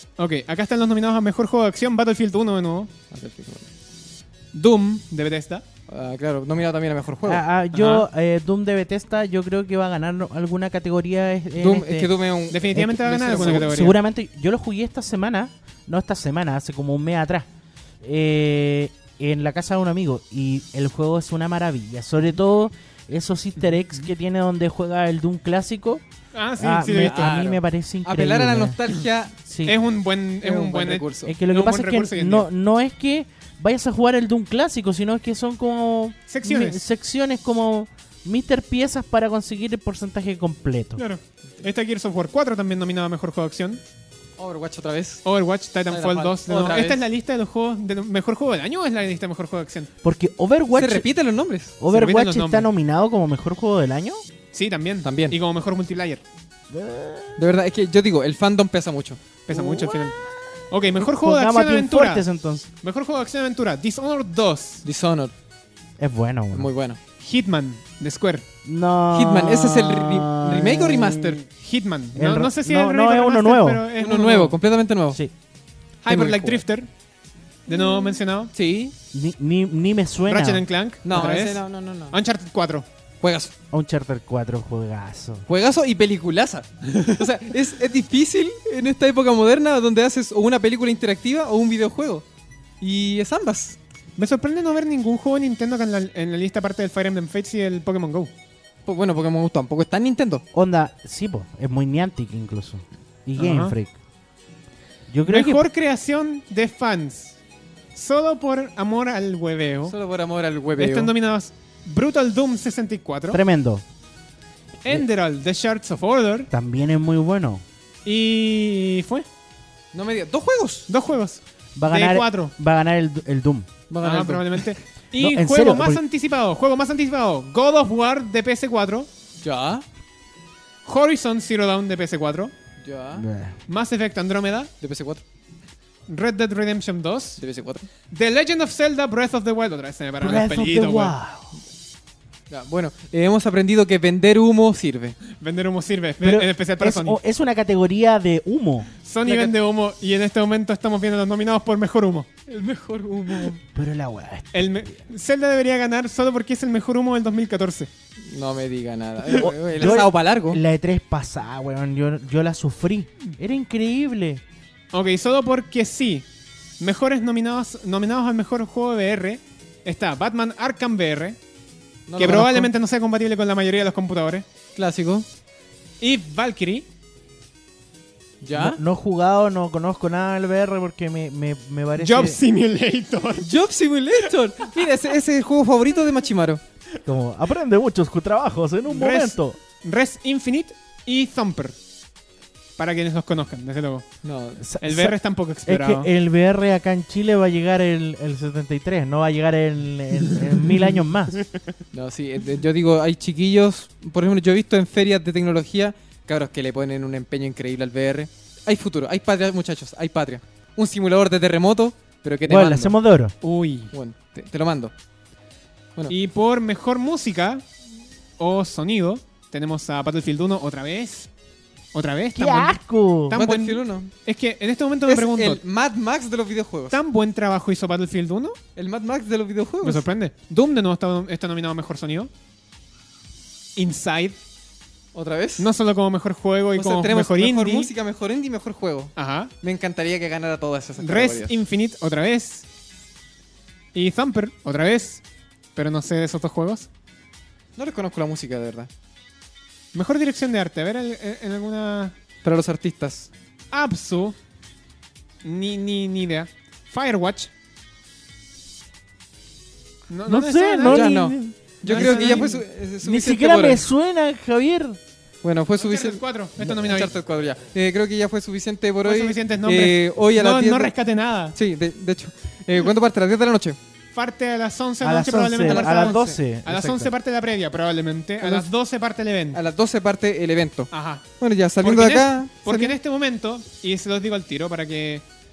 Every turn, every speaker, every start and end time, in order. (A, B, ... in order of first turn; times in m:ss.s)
0:00.2-0:02.9 A
0:03.1-0:03.7 B
0:04.5-0:05.6 A
0:05.9-0:07.4 B
0:07.2-0:12.1 C
0:07.7-0:08.1 A
0:11.6-0:13.7 B
0:12.5-0:14.0 A
0:12.7-0:17.5 C
0:18.0-0:26.0 C
0:26.3-0:27.5 A
0:26.6-0:28.8 C
0:26.8-0:29.4 B
0:29.4-0:29.8 C
0:29.6-0:32.5 A
0:30.4-0:31.3 B
0:31.3-0:41.0 C
0:36.3-0:36.8 A
0:41.0-0:43.8 A
0:44.4-0:45.2 B
0:45.2-0:49.9 A
0:45.9-0:47.0 B
0:50.0-0:51.1 C
0:50.7-0:51.8 B
0:51.8-0:54.2 C
0:51.9-0:52.7 A
0:54.5-0:56.2 A
0:55.0-0:55.4 B
0:56.7-0:57.4 C
0:57.4-0:59.2 B
0:59.5-1:00.2 A
0:59.6-1:00.2 C
1:00.7-1:02.3 A
1:01.0-1:02.7 C
1:02.8-1:04.8 A
1:04.8-1:05.3 B
1:06.0-1:06.7 C
1:06.5-1:07.0 B
1:07.2-1:08.4 A
1:08.6-1:11.4 C
1:09.1-1:11.4 B
1:11.5-1:14.6 A
1:12.2-1:13.8 C
1:14.0-1:15.2 B
1:16.0-1:16.9 A
1:16.1-1:16.6 B
1:17.6-1:18.5 A
1:18.5-1:18.9 B
1:19.1-1:20.6 C
1:20.3-1:22.9 A
1:21.0-1:22.2 B
1:23.2-1:23.5 B
1:23.7-1:25.4 C
1:25.5-1:32.2 B
1:32.8-1:33.8 B
1:34.2-1:38.3 A
1:38.9-1:40.4 B
1:40.5-1:43.9 C
1:43.4-1:43.8 A
1:45.1-1:45.6 C
1:45.3-1:47.4 A
1:47.9-1:49.9 A
1:49.8-1:51.1 B
1:50.8-1:53.4 A
1:53.3-1:53.8 C
1:54.8-1:56.5 A
1:56.5-1:57.6 C
1:58.0-1:59.3 A
1:59.9-2:00.9 B
2:00.9-2:02.6 A
2:01.8-2:03.7 C
2:03.9-2:04.6 B
2:04.0-2:09.1 A
2:05.2-2:06.0 C
2:09.4-2:09.8 B
2:10.8-2:12.5 A
2:12.8-2:13.3 B
2:13.1-2:13.6 C
2:13.7-2:14.7 A
2:14.8-2:15.2 B
2:16.1-2:17.4 A
2:17.4-2:17.9 B
2:18.1-2:21.2 A
2:20.2-2:21.6 C
2:22.5-2:25.2 B
2:25.3-2:27.2 A
2:26.2-2:28.9 C
2:29.0-2:32.3 A
2:29.2-2:29.5 B
2:32.5-2:33.6 B
2:33.7-2:34.9 C
2:34.5-2:37.9 A
2:38.2-2:40.6 B
2:39.3-2:40.0 A
2:39.3-2:44.4 C
2:44.9-2:46.3 A
2:46.8-2:51.4 A
2:52.1-2:52.7 B
2:52.2-2:54.4 A
2:54.7-2:55.3 B
2:56.0-2:56.9 A
2:58.4-2:58.8 B
2:58.5-3:02.4 C
3:02.0-3:03.5 A
3:03.4-3:06.6 B
3:07.0-3:09.6 C
3:08.9-3:11.8 A
3:12.8-3:14.1 A
3:14.2-3:14.6 B
3:14.6-3:15.2 C
3:14.8-3:16.1 A
3:15.6-3:21.4 C
3:21.9-3:33.0 B
3:32.4-3:33.3 C
3:33.4-3:33.9 A
3:33.9-3:34.9 B
3:36.1-3:37.6 A
3:38.4-3:41.3 A
3:41.9-3:42.8 A
3:42.3-3:43.4 C
3:43.3-3:45.6 A
3:43.3-3:44.1 B
3:45.1-3:47.0 B
3:46.9-3:48.6 A
3:48.8-3:50.1 B
3:49.8-3:52.3 A
3:53.8-3:54.4 A
3:55.1-3:55.7 B
3:55.6-3:57.9 A
3:56.7-4:01.6 B
3:59.2-3:59.5 A
4:01.0-4:02.7 A
4:03.9-4:05.2 A
4:05.7-4:06.9 A
4:07.8-4:08.9 B
4:09.9-4:12.2 A
4:12.4-4:13.3 B
4:13.7-4:14.4 A
4:15.4-4:17.5 A
4:20.1-4:21.1 A
4:20.3-4:22.5 C
4:20.8-4:23.8 B
4:21.8-4:22.6 A
4:23.0-4:25.0 C
4:25.4-4:30.9 B
4:25.8-4:27.2 A
4:29.0-4:31.6 A
4:31.5-4:33.8 B
4:34.1-4:39.6 A
4:35.0-4:37.1 C
4:35.6-4:36.4 B
4:38.4-4:38.7 B
4:39.5-4:43.0 B
4:40.9-4:41.2 A
4:41.8-4:45.3 A